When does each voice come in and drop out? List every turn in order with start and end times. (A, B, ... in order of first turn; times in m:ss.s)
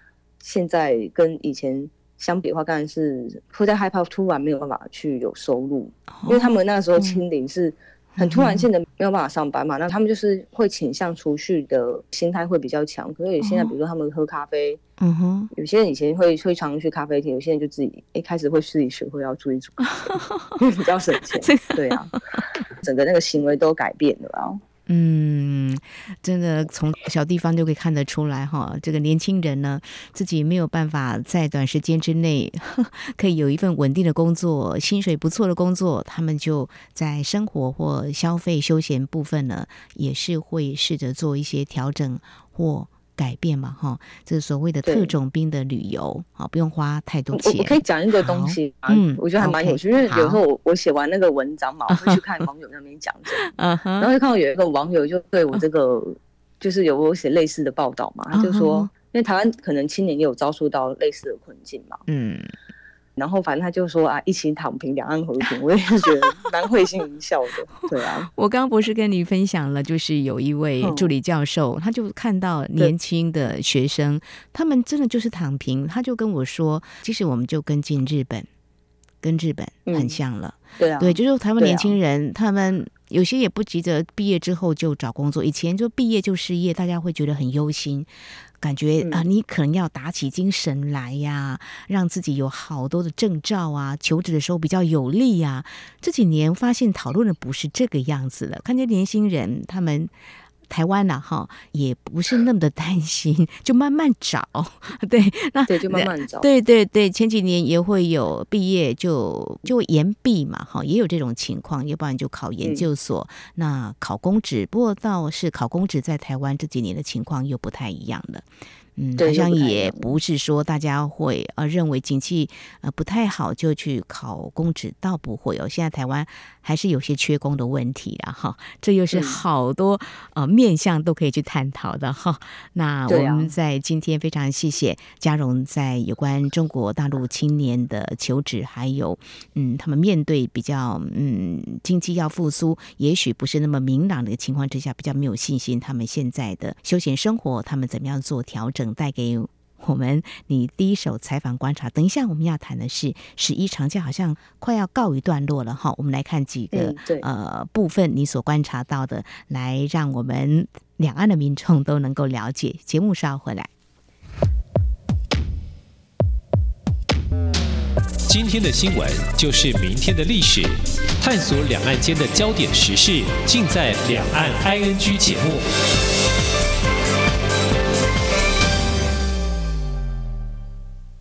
0:00.4-0:14.8 A
0:06.1-0:07.2 B
0:08.2-0:08.7 B
0:13.4-0:13.8 B
0:15.0-0:15.5 B
0:15.5-0:19.9 A
0:20.0-0:20.6 B
0:20.6-0:24.6 A
0:21.4-0:22.4 B
0:24.9-0:50.4 B
0:44.8-0:45.1 A
0:47.4-0:53.4 A
0:51.9-0:52.2 B
0:53.3-0:54.1 B
0:54.0-1:02.0 A
0:58.3-0:58.9 B
1:02.1-1:02.5 B
1:03.2-1:08.3 A
1:08.3-1:18.5 B
1:10.8-1:11.1 A
1:19.2-1:40.1 B
1:19.9-1:20.2 A
1:20.8-1:21.9 A
1:40.7-2:43.7 B
1:45.7-1:46.5 A
1:59.2-2:00.1 A
2:09.1-2:09.4 A
2:13.1-2:13.5 A
2:36.7-2:37.3 A
2:48.3-2:55.7 C